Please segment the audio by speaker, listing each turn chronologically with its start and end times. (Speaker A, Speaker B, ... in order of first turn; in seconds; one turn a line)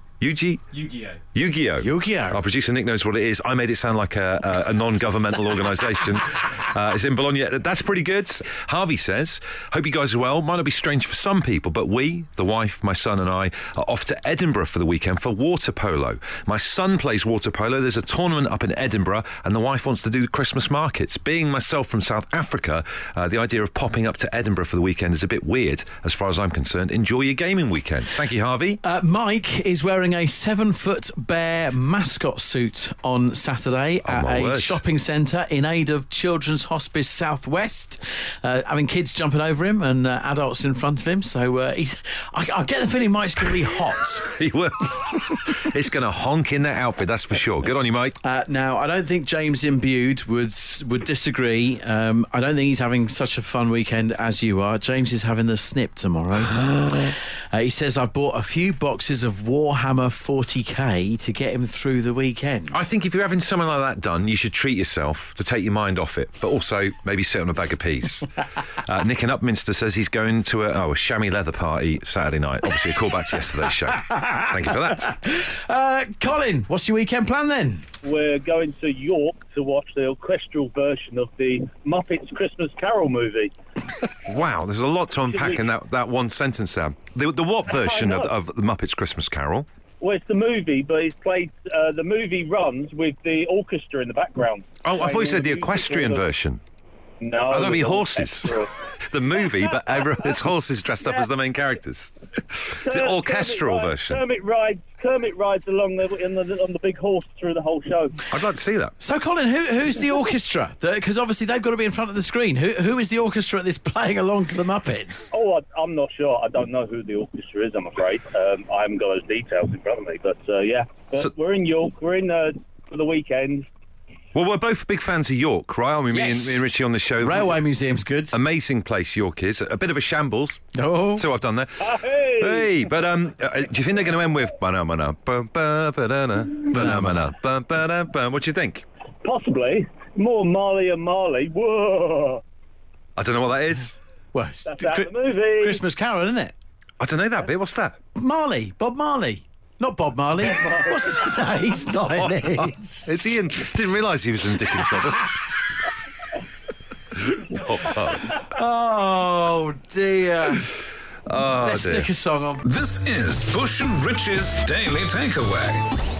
Speaker A: 0.2-28.8
Speaker B: 1.8-2.4
Speaker B: 28.8-44.3
Speaker A: 34.0-34.8
Speaker A: 44.2-48.1
Speaker B: 48.2-62.7
Speaker A: 62.7-75.1
Speaker B: 74.1-77.9
Speaker C: 78.0-83.5
Speaker A: 84.3-89.7
Speaker C: 85.3-85.7
Speaker C: 87.7-88.3
Speaker C: 90.0-96.2
Speaker A: 94.8-96.6
Speaker C: 97.2-98.7
Speaker A: 97.5-104.2
Speaker C: 99.5-100.1
Speaker C: 101.0-101.3
Speaker C: 102.8-108.2
Speaker A: 108.3-108.9
Speaker B: 109.0-115.3
Speaker C: 115.3-123.7
Speaker A: 124.3-127.6
Speaker B: 127.2-128.4
Speaker A: 128.3-138.8
Speaker B: 130.7-131.2
Speaker C: 131.8-132.9
Speaker B: 136.7-137.2
Speaker C: 139.2-142.4
Speaker A: 143.2-144.0
Speaker B: 144.3-146.5
Speaker C: 144.7-145.8
Speaker A: 147.0-148.0
Speaker B: 148.2-153.2
Speaker A: 152.2-155.4
Speaker A: 157.2-158.3
Speaker B: 158.3-160.7
Speaker A: 161.3-162.1
Speaker B: 161.6-162.6
Speaker D: 162.6-165.8